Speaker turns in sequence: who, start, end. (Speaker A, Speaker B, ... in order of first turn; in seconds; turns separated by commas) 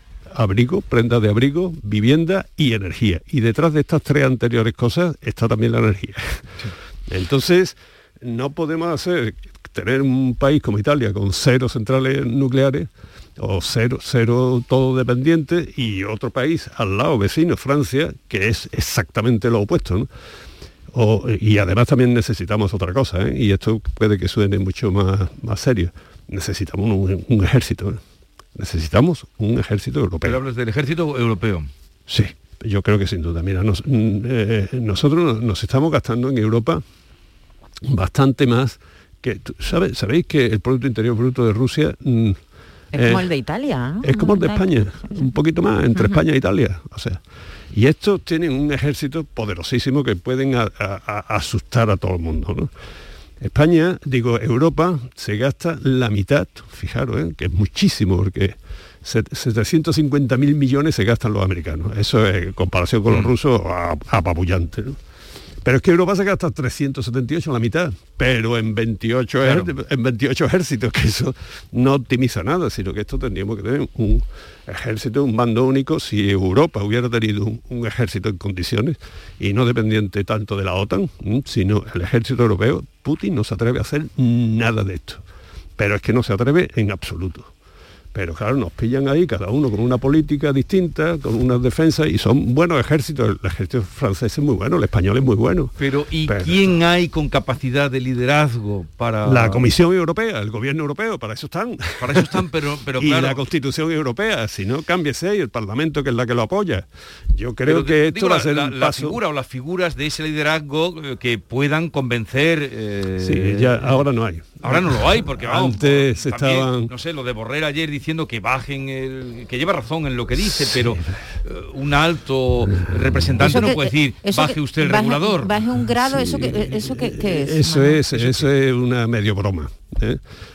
Speaker A: 0.3-20.1, Speaker A: 20.9-28.0, Speaker A: 28.6-30.4, Speaker B: 30.2-31.7, Speaker A: 32.1-36.8, Speaker A: 37.9-42.4, Speaker C: 42.9-45.1, Speaker A: 42.9-43.3, Speaker A: 44.0-47.2, Speaker C: 46.0-46.2, Speaker A: 47.7-52.7, Speaker A: 53.4-65.0, Speaker A: 65.6-85.2, Speaker B: 69.4-69.7, Speaker A: 85.8-87.5, Speaker A: 88.1-95.7, Speaker B: 95.8-99.6, Speaker A: 96.2-96.8, Speaker A: 99.2-102.3, Speaker B: 102.0-103.4, Speaker A: 103.0-106.8, Speaker A: 107.4-109.2, Speaker B: 107.7-114.0, Speaker A: 113.2-116.9, Speaker B: 114.6-125.6, Speaker A: 120.4-121.2, Speaker A: 122.7-123.6, Speaker C: 123.4-128.1, Speaker A: 126.0-130.2, Speaker B: 128.1-128.5